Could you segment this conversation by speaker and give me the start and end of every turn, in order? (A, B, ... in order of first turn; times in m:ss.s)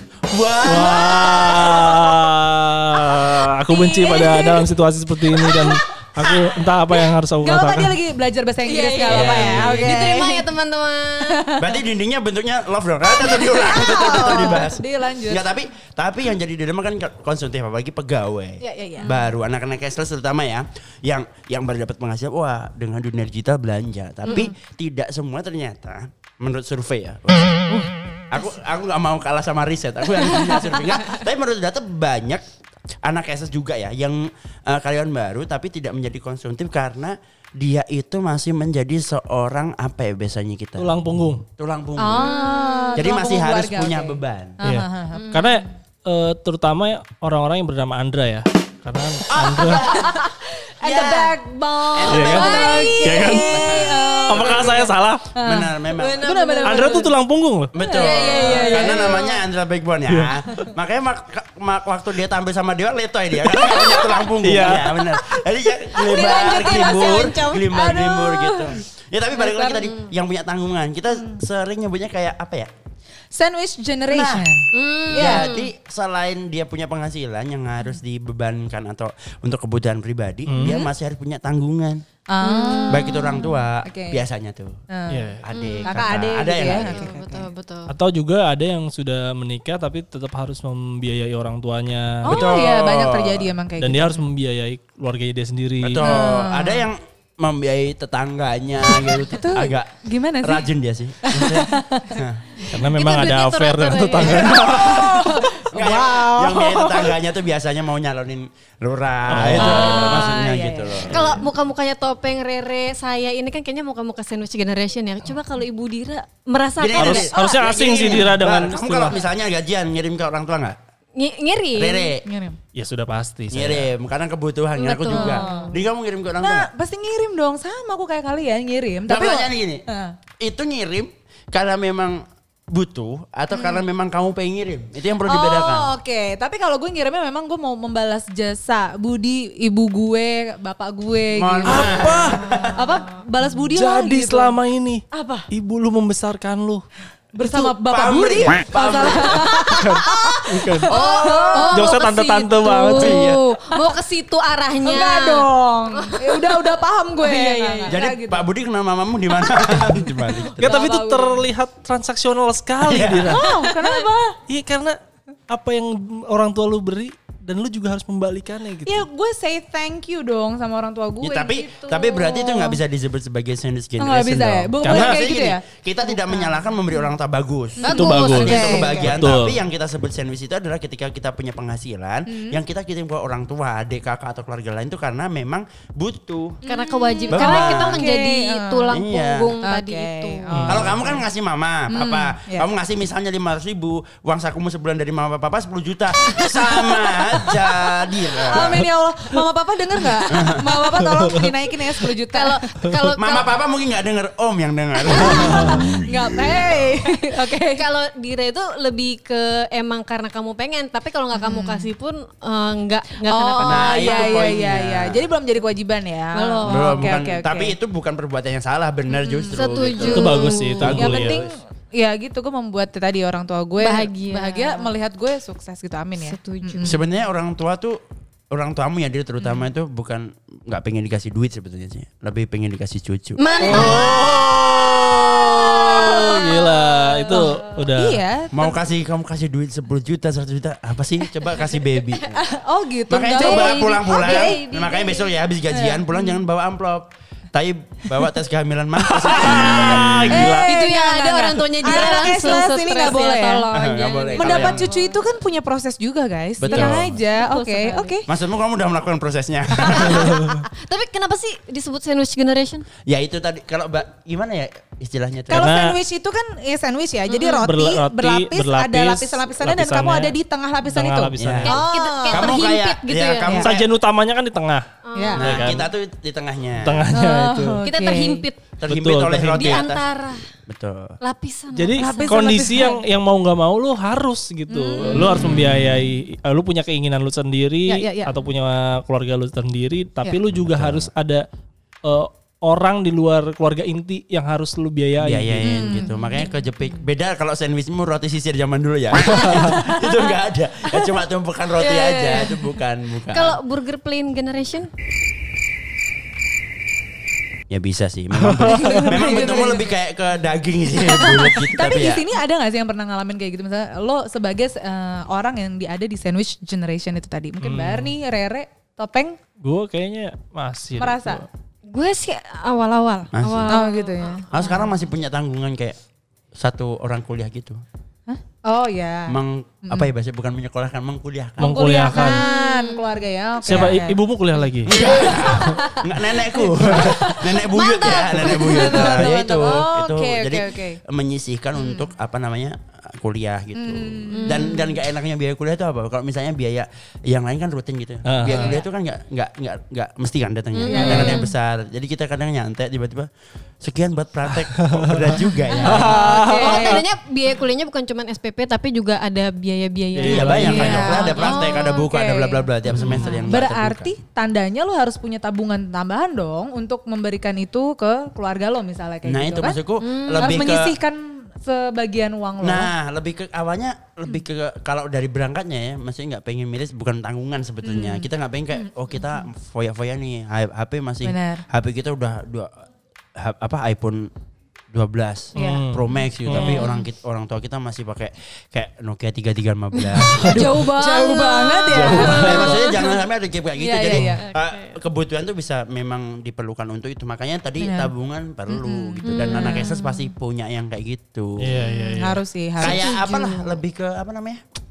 0:00.3-0:01.9 A
0:00.6-0:08.0 B
0:03.7-0:04.7 C
0:05.3-0:06.4 C
0:07.4-0:10.5 D
0:08.6-0:11.5 C
0:09.1-0:10.1 A
0:11.3-0:11.8 D
0:11.6-0:27.7 A
0:13.2-0:15.5 D
0:14.1-0:14.6 C
0:18.6-0:19.2 D
0:24.2-0:24.5 C
0:28.3-0:32.4 A
0:33.0-0:40.9 A
0:40.8-0:41.4 B
0:41.6-0:42.3 A
0:42.0-0:45.3 D
0:42.1-0:43.1 C
0:42.9-0:44.6 A
0:44.6-0:49.9 B
0:45.1-0:45.7 C
0:49.3-0:50.1 A
0:49.7-0:50.2 C
0:49.8-0:57.1 D
0:50.8-0:51.3 A
0:51.0-0:54.7 C
0:51.9-0:54.5 A
0:52.1-0:55.3 B
0:55.4-0:56.2 A
0:55.9-0:56.8 C
0:56.6-0:57.7 B
0:57.7-1:12.7 A
0:57.8-0:59.4 C
0:57.8-0:59.2 D
1:00.1-1:00.7 B
1:03.4-1:03.8 B
1:04.4-1:05.1 B
1:06.0-1:07.6 C
1:06.1-1:08.8 D
1:09.3-1:09.9 D
1:13.3-1:15.5 D
1:14.1-1:14.5 A
1:14.7-1:15.7 C
1:15.1-1:22.0 A
1:20.5-1:20.8 B
1:22.3-1:24.2 D
1:22.4-1:23.6 C
1:22.9-1:24.8 A
1:24.9-1:27.5 D
1:25.1-1:25.4 B
1:25.4-1:27.1 A
1:25.5-1:27.9 C
1:27.9-1:32.5 B
1:32.2-1:34.2 D
1:32.3-1:33.5 A
1:33.8-1:36.2 B
1:35.8-1:42.7 A
1:36.0-1:36.9 D
1:39.0-1:40.7 D
1:41.2-1:42.2 D
1:42.7-1:44.9 B
1:42.7-1:45.5 C
1:44.2-1:51.4 A
1:44.4-1:47.2 D
1:49.3-1:50.2 B
1:49.6-1:50.4 C
1:49.6-1:51.1 D
1:51.1-1:57.3 C
1:56.8-2:00.8 A
1:56.9-1:59.2 B
2:01.2-2:02.1 C
2:01.8-2:02.2 A
2:02.2-2:02.6 D
2:02.7-2:03.9 B
2:03.5-2:06.7 A
2:04.8-2:05.8 D
2:05.1-2:05.7 C
2:06.4-2:10.2 D
2:09.1-2:09.8 A
2:10.4-2:15.9 A
2:15.2-2:24.6 D
2:21.3-2:22.8 A
2:21.6-2:22.5 B
2:22.2-2:23.2 C
2:23.7-2:26.8 B
2:25.1-2:25.5 D
2:27.3-2:31.9 D
2:27.5-2:29.7 A
2:29.8-2:30.9 B
2:30.0-2:36.7 C
2:30.9-2:31.7 A
2:31.7-2:33.2 B
2:33.0-2:33.4 A
2:34.8-2:38.5 D
2:37.2-2:38.0 C
2:37.9-2:40.8 A
2:40.4-2:41.4 D
2:40.6-2:43.5 B
2:42.8-2:43.4 A
2:43.3-2:44.4 D
2:43.7-2:44.1 C
2:44.5-2:45.0 B
2:45.5-2:49.0 B
2:48.9-2:52.8 D
2:51.2-3:06.6 A
2:54.0-2:57.0 D
2:54.8-2:55.3 B
2:57.8-2:59.2 D
2:57.8-2:59.0 C
2:57.9-2:59.6 B
3:02.3-3:02.6 D
3:06.6-3:09.0 D
3:06.6-3:10.7 C
3:07.3-3:08.1 A
3:08.9-3:09.5 A
3:09.6-3:11.2 D
3:10.5-3:11.0 B
3:10.7-3:18.9 A
3:11.9-3:12.7 D
3:16.8-3:17.4 D
3:18.3-3:22.6 D
3:20.3-3:20.7 A
3:21.0-3:21.5 B
3:22.3-3:23.5 C
3:23.2-3:26.1 A
3:25.1-3:27.8 D
3:27.4-3:34.4 C
3:31.3-3:31.9 D
3:33.3-3:37.8 D
3:33.6-3:35.3 A
3:36.3-3:37.1 C
3:36.6-3:41.5 A
3:39.1-3:47.0 D
3:39.5-3:41.1 C
3:40.0-3:41.4 B
3:43.8-3:44.9 C
3:46.2-3:46.9 C
3:46.8-3:48.0 A
3:48.5-3:53.4 A
3:53.4-3:54.4 C
3:53.6-3:58.2 B
3:55.4-3:57.6 C
3:55.9-3:56.4 D
3:57.3-3:58.8 D
3:58.5-4:02.4 A
4:01.4-4:02.0 C
4:02.4-4:04.6 D
4:03.1-4:10.6 A
4:03.3-4:05.3 C
4:05.7-4:06.4 D
4:09.0-4:10.7 B
4:09.4-4:13.7 D
4:10.6-4:15.2 C
4:13.7-4:14.9 A
4:14.3-4:18.3 D
4:16.6-4:17.2 A
4:16.7-4:18.2 C
4:18.3-4:20.4 A
4:19.8-4:22.9 C
4:20.2-4:20.6 B
4:23.0-4:25.8 A
4:25.5-4:32.6 D
4:25.5-4:26.0 B
4:27.4-4:31.8 B
4:31.4-4:33.9 A
4:31.6-4:33.6 C
4:33.6-4:34.9 B
4:35.0-4:35.8 C
4:35.2-4:35.4 D
4:35.3-4:37.0 A
4:35.4-4:35.9 B
4:36.8-4:37.8 B
4:37.1-4:38.5 D
4:37.8-4:38.6 C
4:38.8-4:40.0 A
4:38.9-4:39.9 B
4:39.5-4:40.5 C
4:40.6-4:41.2 A
4:41.2-4:42.6 C
4:41.7-4:51.4 B
4:42.0-4:43.0 D
4:44.7-4:45.5 D
4:47.9-4:48.3 D
4:50.5-4:51.1 A
4:52.0-4:55.6 B
4:55.2-5:03.6 A
4:55.6-4:56.5 D
5:01.8-5:02.7 C
5:03.3-5:04.9 C
5:07.7-5:12.2 A
5:08.3-5:09.2 B
5:08.7-5:09.9 D
5:11.0-5:19.4 D
5:17.6-5:18.2 B
5:19.6-5:21.5 B
5:21.0-5:21.4 D
5:21.9-5:24.9 C
5:23.3-5:23.8 A
5:23.7-5:24.7 D
5:24.5-5:26.0 A
5:26.6-5:27.8 A
5:28.3-5:30.1 D
5:29.3-5:31.8 A
5:31.6-5:32.4 B
5:31.6-5:34.2 D
5:32.1-5:33.2 C
5:33.6-5:34.0 A
5:33.6-5:34.9 B
5:34.9-5:53.3 A
5:34.9-5:36.0 D
5:36.6-5:41.0 D
5:37.7-5:39.6 C
5:41.8-5:42.1 D
5:43.8-5:44.6 D
5:44.3-5:45.0 C
5:48.2-5:48.7 B
5:48.4-5:48.8 D
5:50.7-5:51.5 C
5:50.9-5:51.4 D
5:51.0-5:51.3 B
5:53.8-5:56.2 A
5:54.8-5:57.0 B
5:55.8-5:57.0 D
5:55.9-6:02.1 C
6:00.1-6:01.3 B
6:00.2-6:04.1 A
6:00.6-6:09.8 D
6:03.0-6:03.4 C
6:09.2-6:11.0 A
6:10.0-6:10.7 C
6:10.3-6:12.9 D
6:12.6-6:22.7 A
6:17.8-6:18.3 D
6:21.2-6:21.6 D
6:23.4-6:24.3 A
6:24.9-6:30.8 A
6:25.5-6:26.8 B
6:25.6-6:25.8 D
6:26.5-6:26.9 D
6:26.6-6:27.0 C
6:29.9-6:33.1 C
6:30.2-6:30.8 B
6:30.4-6:33.0 D
6:31.9-6:32.8 B
6:32.0-6:41.7 A
6:33.8-6:34.4 D
6:34.5-6:34.9 C
6:37.8-6:38.1 D
6:38.7-6:40.2 D
6:39.2-6:39.9 C
6:41.6-6:42.4 B
6:41.8-6:42.1 C
6:42.0-6:43.2 D
6:42.8-6:44.6 A
6:42.8-6:43.8 C